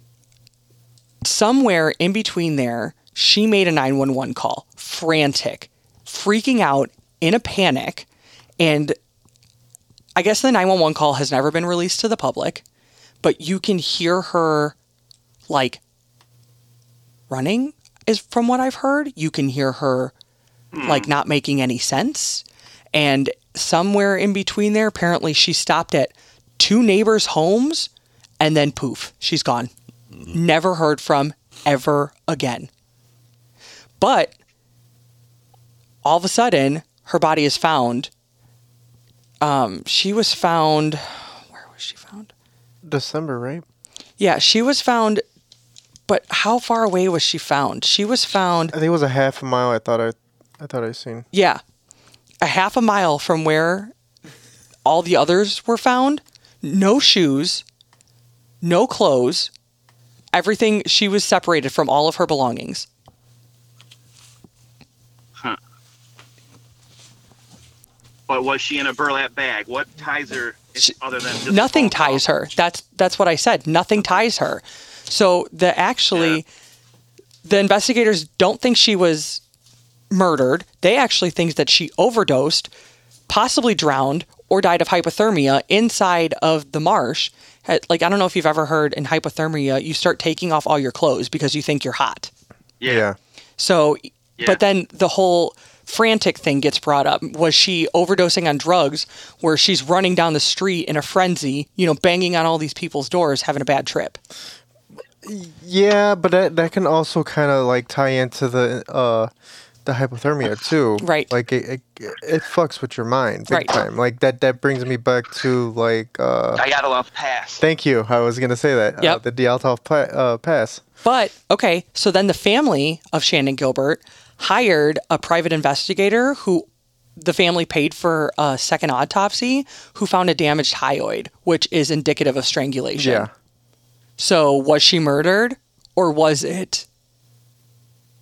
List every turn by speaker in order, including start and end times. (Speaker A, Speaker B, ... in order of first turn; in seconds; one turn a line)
Speaker A: 1.2-8.1
Speaker A: 8.6-9.0
Speaker A: 10.2-12.6
Speaker A: 13.2-14.8
Speaker A: 15.5-15.8
Speaker A: 17.3-20.1
Speaker B: 20.7-21.1
Speaker A: 20.8-27.9
Speaker A: 28.4-29.7
Speaker A: 30.3-32.7
Speaker A: 34.0-34.4
Speaker A: 36.0-38.1
Speaker A: 39.4-42.3
Speaker C: 42.8-43.6
Speaker A: 44.2-45.2
Speaker A: 46.1-48.7
Speaker C: 48.7-51.3
Speaker A: 51.3-51.6
Speaker A: 52.4-53.9
Speaker A: 54.9-57.6
Speaker A: 58.6-59.5
Speaker A: 60.3-62.9
Speaker B: 68.3-72.2
Speaker A: 70.8-76.5
Speaker B: 76.1-76.4
Speaker A: 77.4-79.4
Speaker A: 80.1-82.7
Speaker A: 83.3-92.3
Speaker B: 92.8-93.1
Speaker C: 92.8-93.2
Speaker A: 93.6-104.2
Speaker C: 105.2-109.3
Speaker C: 109.8-116.6
Speaker A: 111.0-111.3
Speaker A: 113.5-113.8
Speaker B: 116.5-117.6
Speaker C: 117.6-120.8
Speaker A: 121.0-126.7
Speaker A: 127.2-133.3
Speaker C: 133.0-133.3
Speaker A: 134.2-136.9